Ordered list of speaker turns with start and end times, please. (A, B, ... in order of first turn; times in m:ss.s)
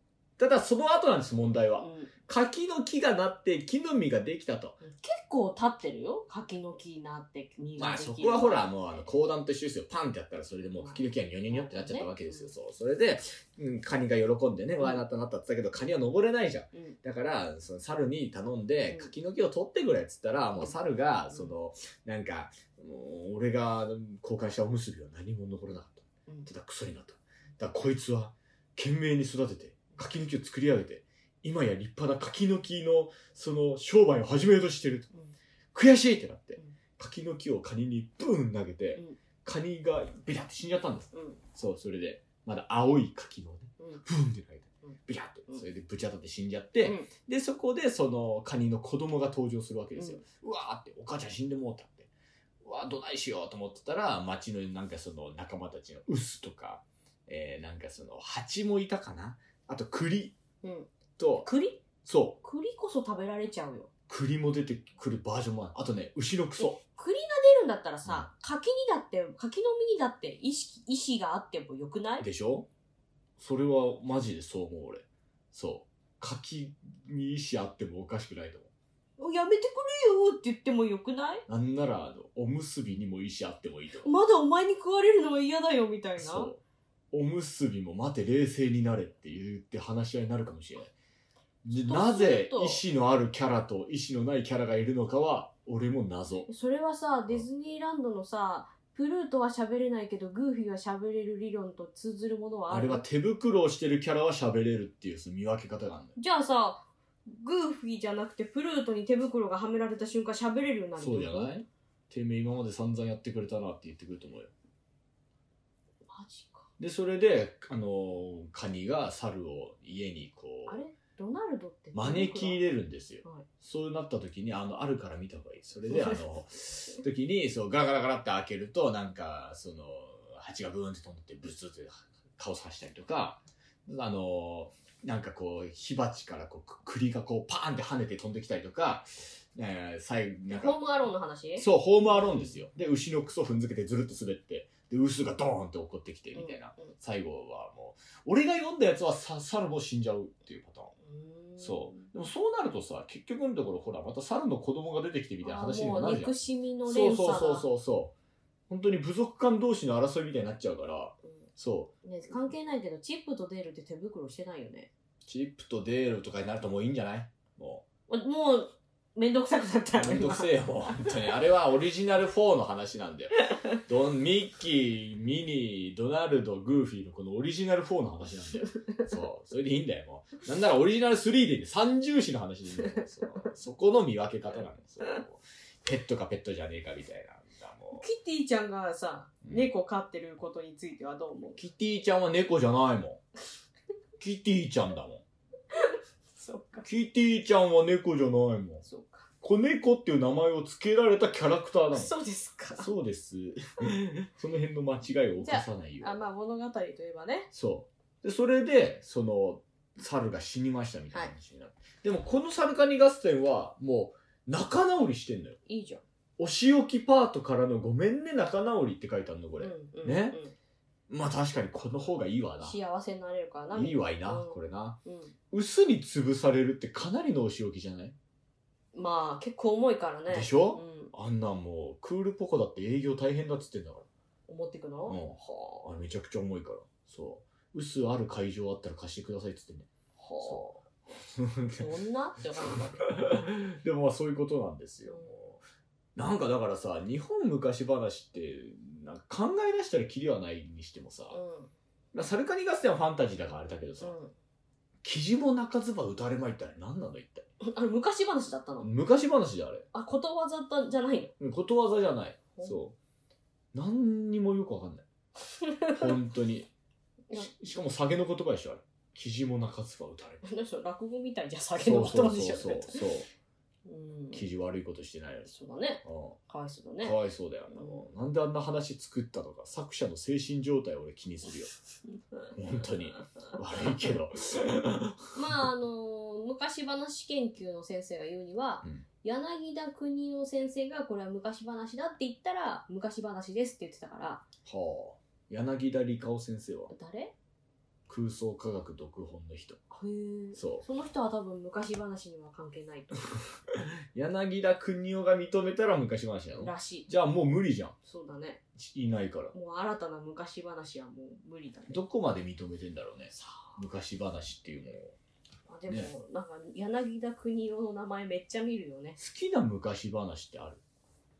0:00.4-0:04.8 A
0:01.8-0:02.1 B
0:04.8-0:09.0 B
0:07.8-0:35.1 A
0:10.8-0:12.5 B
0:21.3-0:21.6 B
0:35.7-0:52.1 A
0:41.1-0:41.4 B
0:46.8-0:47.1 B
0:50.0-0:50.2 B
0:52.6-1:00.4 A
1:00.6-1:00.9 B
1:01.2-1:01.5 A
1:01.4-1:01.8 B
1:02.0-1:02.4 A
1:02.4-1:03.9 B
1:04.1-1:06.8 A
1:06.6-1:12.3 B
1:08.0-1:08.3 A
1:12.2-1:12.7 A
1:13.4-1:18.7 A
1:19.2-1:21.4 B
1:21.5-1:24.1 A
1:24.0-1:26.5 B
1:26.2-1:26.6 A
1:27.1-1:30.9 A
1:31.6-1:36.5 A
1:31.8-1:32.8 B
1:36.5-1:43.0 B
1:42.7-1:46.1 A
1:46.2-1:51.5 B
1:51.0-1:54.5 A
1:56.1-1:56.7 B
1:56.8-2:00.8 A
2:00.7-2:03.5 B
2:01.9-2:20.8 A
2:05.9-2:06.2 B
2:20.5-2:22.5 B
2:21.6-2:30.9 A
2:26.4-2:26.9 B
2:31.0-2:32.0 B
2:31.6-2:36.3 A
2:35.4-2:37.7 B
2:36.8-2:38.1 A
2:38.7-2:41.9 A
2:42.0-2:44.9 B
2:45.3-2:47.8 A
2:48.1-2:51.2 B
2:50.0-3:08.0 A
3:08.0-3:11.6 B
3:09.4-3:09.7 A
3:11.6-3:13.2 A
3:14.2-3:15.2 A
3:15.8-3:16.9 B
3:16.8-3:18.8 A
3:18.9-3:19.3 B
3:19.4-3:22.1 A
3:21.9-3:22.9 B
3:22.8-3:26.1 A
3:25.4-3:27.5 B
3:27.5-3:35.6 A
3:35.7-3:36.0 B
3:36.4-3:40.4 A
3:39.6-3:40.5 B
3:41.1-3:42.8 A
3:42.6-3:45.3 B
3:43.7-3:45.0 A
3:45.5-3:48.1 A
3:48.9-3:51.1 B
3:50.3-3:54.1 A
3:54.5-3:55.2 B
3:55.1-3:59.9 A
4:00.2-4:00.8 B
4:00.4-4:00.7 A
4:01.3-4:01.9 A
4:01.8-4:03.4 B
4:03.0-4:05.6 A
4:05.1-4:05.3 B
4:06.2-4:11.4 A
4:11.3-4:11.7 B
4:12.1-4:14.1 A
4:14.0-4:14.3 B
4:15.0-4:17.5 A
4:17.6-4:18.9 B
4:18.8-4:19.9 A
4:19.9-4:21.3 B
4:21.4-4:23.0 A
4:23.7-4:25.0 A
4:25.6-4:26.1 B
4:25.9-4:26.7 A
4:27.3-4:30.4 A
4:30.4-4:33.0 B
4:31.8-4:33.3 A
4:33.9-4:34.5 B
4:34.3-4:35.5 A
4:35.5-4:37.2 B
4:36.0-4:36.4 A
4:37.0-4:41.7 A
4:37.7-4:38.1 B
4:42.5-4:45.6 A
4:45.3-4:54.4 B
4:54.7-4:56.9 A
4:56.9-4:57.3 B
4:58.1-4:59.8 A
4:59.9-5:03.4 B
5:00.6-5:00.8 A
5:03.7-5:08.0 A
5:06.6-5:07.1 B
5:08.1-5:08.6 B
5:08.8-5:09.5 A
5:09.5-5:12.0 B
5:11.9-5:15.1 A
5:13.4-5:13.8 B
5:15.7-5:19.2 B
5:19.2-5:20.8 A